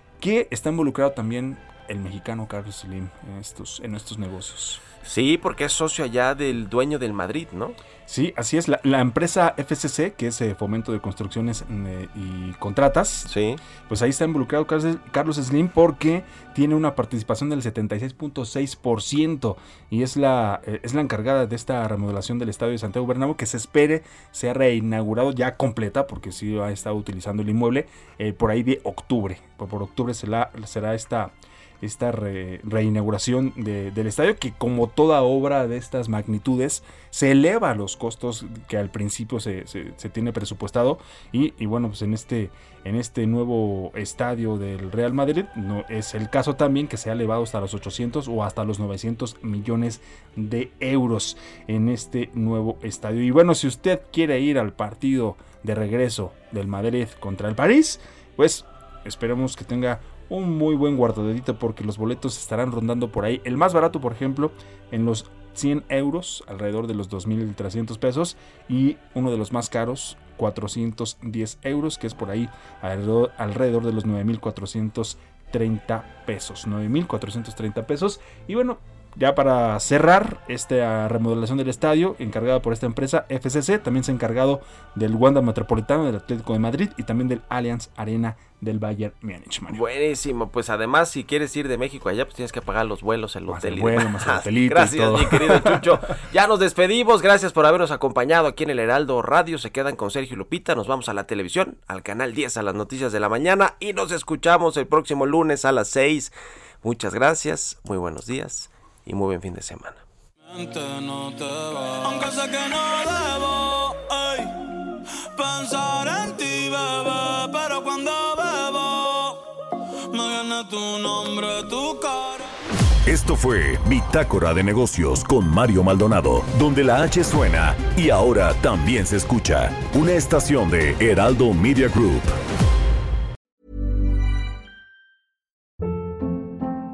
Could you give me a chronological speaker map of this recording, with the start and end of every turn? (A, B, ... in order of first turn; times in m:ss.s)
0:00.2-0:04.8 A
0:05.0-0:07.8 B
0:08.1-0:13.3 A
0:13.3-0:13.6 B
0:13.9-1:29.8 A
1:29.7-1:50.0 B
1:33.5-1:35.8 A
1:50.5-1:54.5 C
1:55.3-1:59.4 C
2:00.1-2:02.6 C
2:03.0-2:12.4 D